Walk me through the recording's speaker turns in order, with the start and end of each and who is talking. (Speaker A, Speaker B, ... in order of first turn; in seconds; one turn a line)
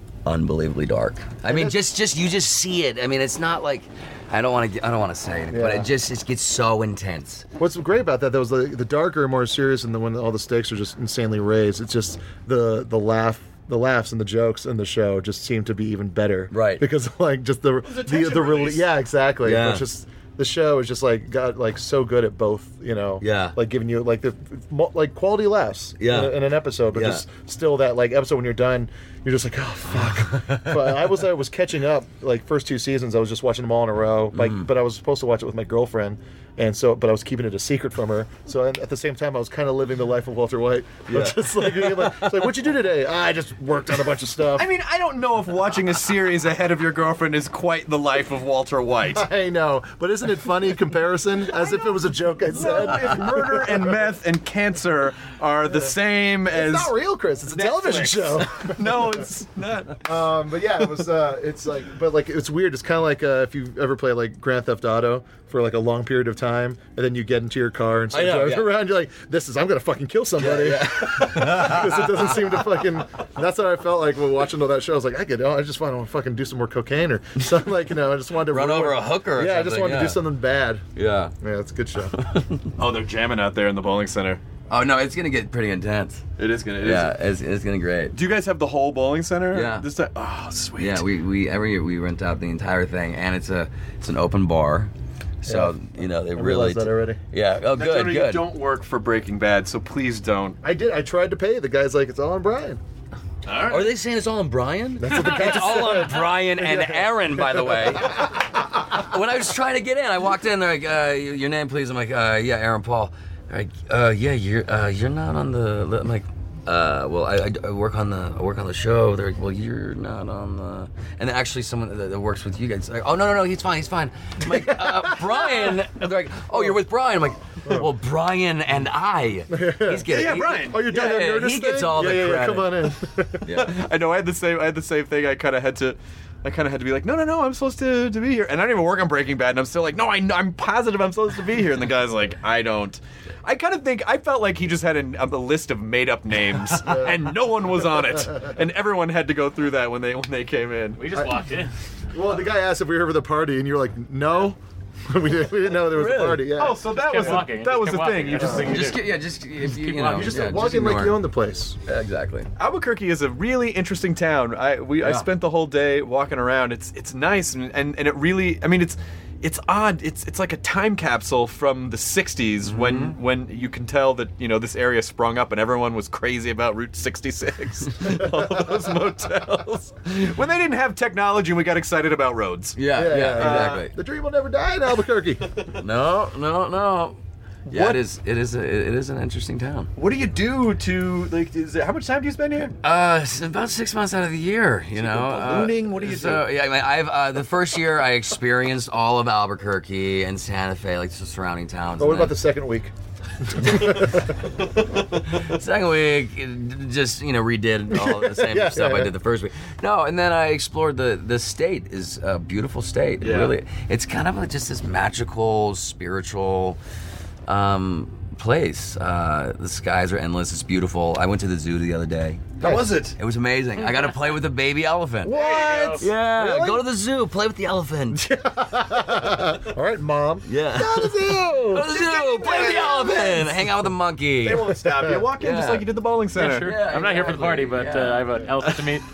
Speaker A: 0.2-7.5
Speaker B: 1.5-1.8
Speaker B: 5.5-5.9
Speaker B: 7.6-44.7
Speaker A: 16.5-16.9
Speaker C: 17.8-18.9
Speaker A: 19.4-19.9
Speaker A: 23.2-23.6
Speaker A: 26.0-26.4
Speaker A: 26.9-27.2
Speaker A: 29.9-31.0
Speaker A: 34.3-34.7
Speaker A: 41.1-42.6
Speaker C: 44.5-49.2
Speaker B: 49.1-53.9
Speaker C: 51.5-51.9
Speaker C: 52.5-56.9
Speaker B: 56.5-59.2
Speaker C: 57.5-60.1
Speaker B: 60.0-80.8
Speaker A: 68.1-68.8
Speaker A: 70.4-72.8
Speaker A: 78.5-80.2
Speaker A: 81.0-81.3
Speaker B: 81.4-82.3
Speaker A: 82.2-82.6
Speaker C: 82.8-84.4
Speaker A: 84.7-86.2
Speaker C: 86.4-87.1
Speaker A: 86.8-88.2
Speaker C: 88.1-91.0
Speaker A: 89.5-89.9
Speaker A: 90.8-98.5
Speaker B: 95.5-95.7
Speaker B: 96.3-97.2
Speaker C: 97.7-100.6
Speaker B: 100.6-102.8
Speaker C: 103.5-103.9
Speaker A: 103.7-132.9
Speaker B: 105.0-108.4
Speaker B: 124.5-125.7
Speaker B: 129.5-133.4
Speaker C: 130.1-131.0
Speaker A: 133.4-133.8
Speaker C: 133.5-151.2
Speaker B: 146.8-147.2
Speaker D: 151.0-151.7
Speaker B: 152.1-157.4
Speaker A: 155.9-156.5
Speaker C: 156.5-158.9
Speaker D: 156.9-159.2
Speaker A: 158.6-161.2
Speaker D: 159.8-160.3
Speaker B: 160.0-161.8
Speaker A: 161.8-162.5
Speaker C: 162.6-183.8
Speaker A: 165.0-165.3
Speaker A: 172.6-173.1
Speaker B: 178.5-178.8
Speaker A: 182.7-183.9
Speaker B: 182.9-185.5
Speaker A: 185.8-189.9
Speaker C: 187.7-188.0
Speaker C: 189.9-192.8
Speaker A: 192.8-202.4
Speaker C: 195.0-196.5
Speaker B: 202.0-202.9
Speaker B: 203.4-204.3
Speaker A: 203.6-204.1
Speaker A: 205.2-216.8
Speaker B: 207.9-209.1
Speaker C: 213.2-213.5
Speaker A: 217.4-225.4
Speaker C: 222.6-223.2
Speaker B: 222.6-223.0
Speaker B: 225.2-226.8
Speaker D: 225.3-226.1
Speaker A: 226.0-228.3
Speaker B: 228.1-233.4
Speaker A: 230.4-234.8
Speaker C: 231.9-233.4
Speaker C: 234.4-236.8
Speaker B: 234.9-235.2
Speaker A: 235.3-235.9
Speaker D: 236.3-239.1
Speaker A: 236.5-238.5